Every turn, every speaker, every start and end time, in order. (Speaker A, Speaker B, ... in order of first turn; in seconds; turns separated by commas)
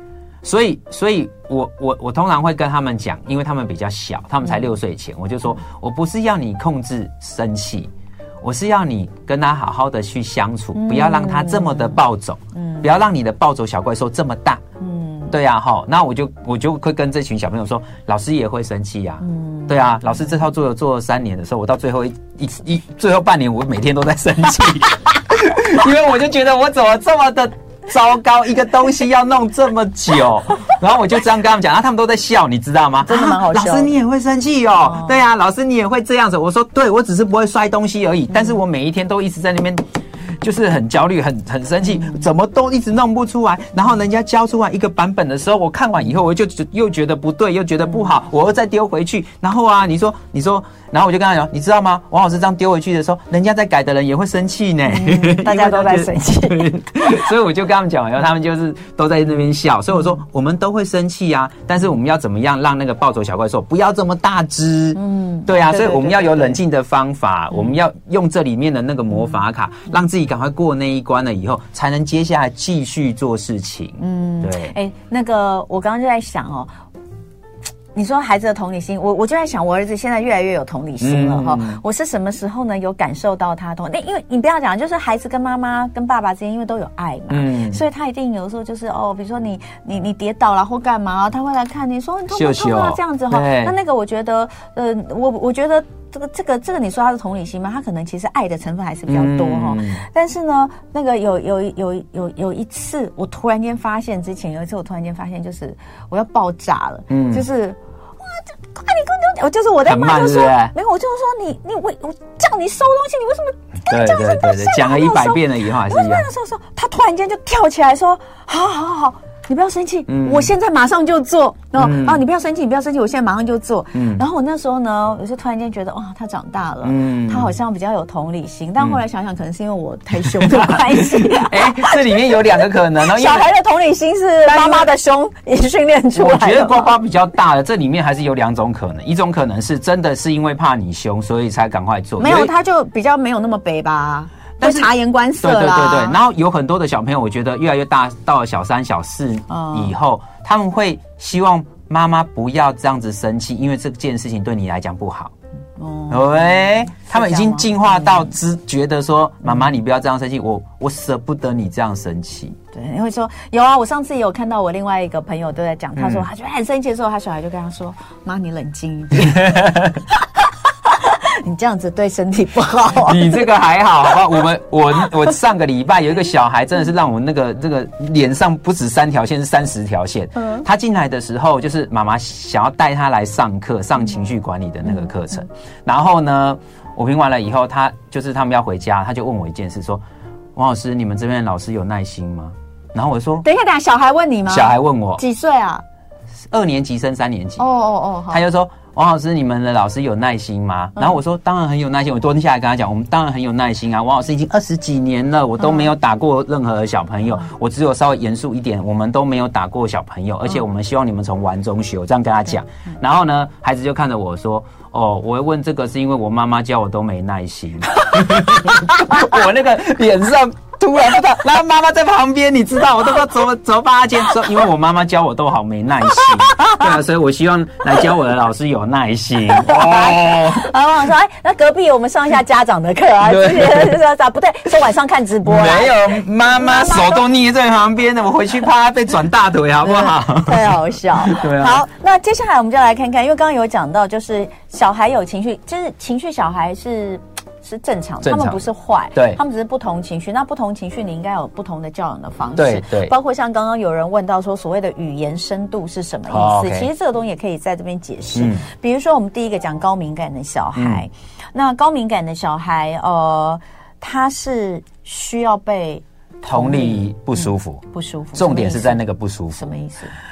Speaker A: 0.4-7.9, Speaker A: 8.4-14.6, Speaker B: 10.8-12.0, Speaker B: 12.6-12.9, Speaker B: 14.8-15.3, Speaker A: 15.3-39.8, Speaker B: 19.2-20.0, Speaker B: 33.0-33.9, Speaker B: 34.8-35.1, Speaker A: 40.4-74.8, Speaker B: 54.9-57.2, Speaker B: 65.0-66.6, Speaker B: 74.0-76.7, Speaker B: 77.9-136.9, Speaker A: 81.0-81.8, Speaker A: 87.3-87.8, Speaker A: 92.3-93.8, Speaker A: 99.1-100.0, Speaker A: 107.1-107.5, Speaker A: 109.9-110.7, Speaker A: 113.9-116.3, Speaker A: 120.1-120.5, Speaker A: 121.8-122.2, Speaker A: 123.9-124.2, Speaker A: 126.8-127.5, Speaker A: 130.2-133.5, Speaker A: 134.5-134.9, Speaker A: 136.2-142.5, Speaker B: 142.2-146.2, Speaker A: 144.6-155.3, Speaker B: 149.5-149.9, Speaker B: 155.8-158.3, Speaker A: 156.1-162.6, Speaker B: 162.7-170.2, Speaker A: 166.0-166.3, Speaker A: 169.2-170.0, Speaker B: 170.8-173.5, Speaker A: 173.1-190.0, Speaker B: 184.8-185.1, Speaker A: 190.6-193.4, Speaker B: 193.4-195.8, Speaker A: 194.5-195.2, Speaker A: 196.5-197.7, Speaker B: 197.6-198.4, Speaker A: 198.3-230.7, Speaker B: 205.6-205.9, Speaker B: 226.5-226.8, Speaker B: 229.5-237.2, Speaker A: 233.2-234.0, Speaker A: 235.4-241.8, Speaker B: 239.8-269.0, Speaker A: 248.2-248.6, Speaker A: 252.6-253.1, Speaker A: 256.3-256.9, Speaker A: 258.4-258.6, Speaker A: 260.8-261.0, Speaker A: 266.5-267.8, Speaker A: 268.4-269.7, Speaker B: 269.5-270.1